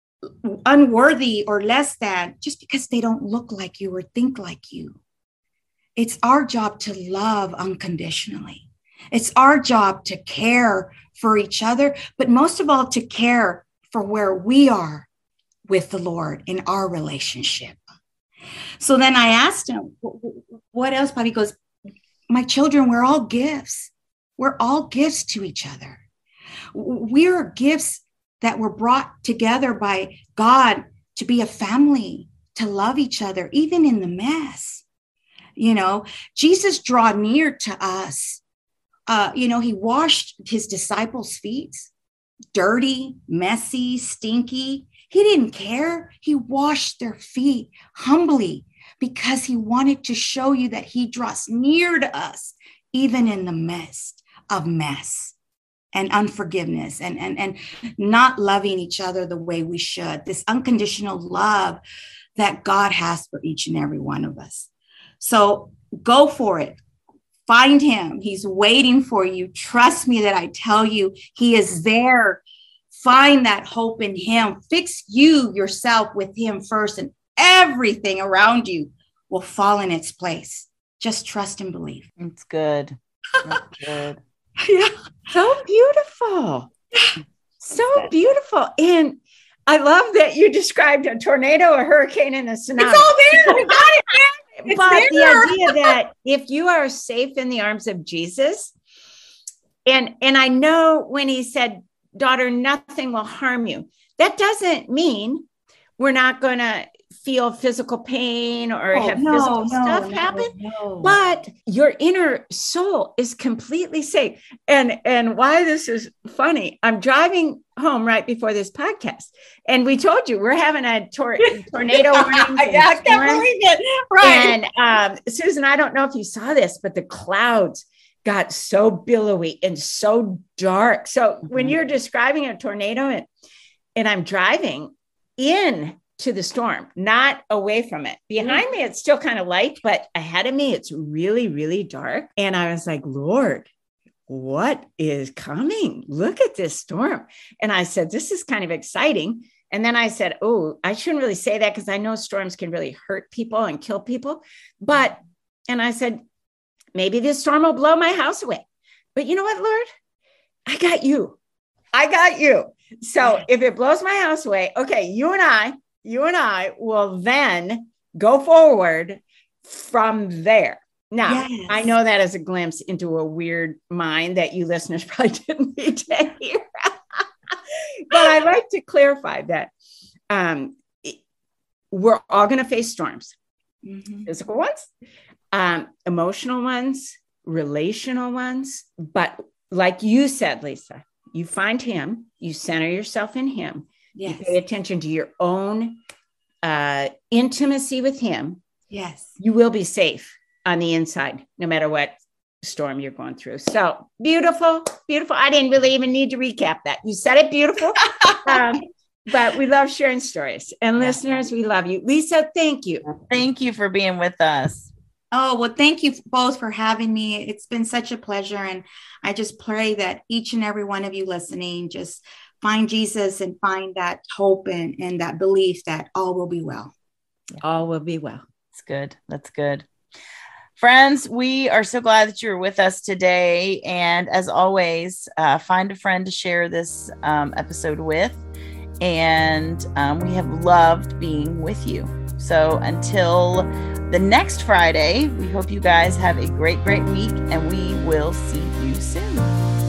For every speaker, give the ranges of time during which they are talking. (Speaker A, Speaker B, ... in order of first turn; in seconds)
Speaker A: 0.2-5.0, 6.0-15.1, 15.7-17.8, 18.8-21.6, 22.3-26.0, 26.7-34.8, 35.6-38.4, 39.1-41.9, 42.5-55.4, 55.9-61.8, 62.4-64.7, 65.2-66.8, 67.5-72.4, 72.9-82.1, 84.6-84.9, 92.8-96.0, 108.9-111.2, 121.9-124.6, 171.3-171.9, 183.8-184.3, 194.2-194.6, 198.9-199.3, 208.2-208.6, 215.3-226.9
Speaker B: 82.2-84.2, 213.3-214.9, 228.7-229.8, 230.8-238.4, 239.0-249.6
Speaker C: 85.3-86.7, 87.6-93.8, 94.6-98.7, 99.9-105.4, 106.0-123.5, 124.2-133.3, 134.0-143.7, 144.3-156.2, 156.9-158.6, 159.2-159.9, 160.7-161.4, 161.9-177.2, 178.1-179.7, 180.3-181.2, 181.9-183.3, 184.3-184.9, 185.5-196.0, 196.6-198.6, 199.4-213.1, 227.6-228.4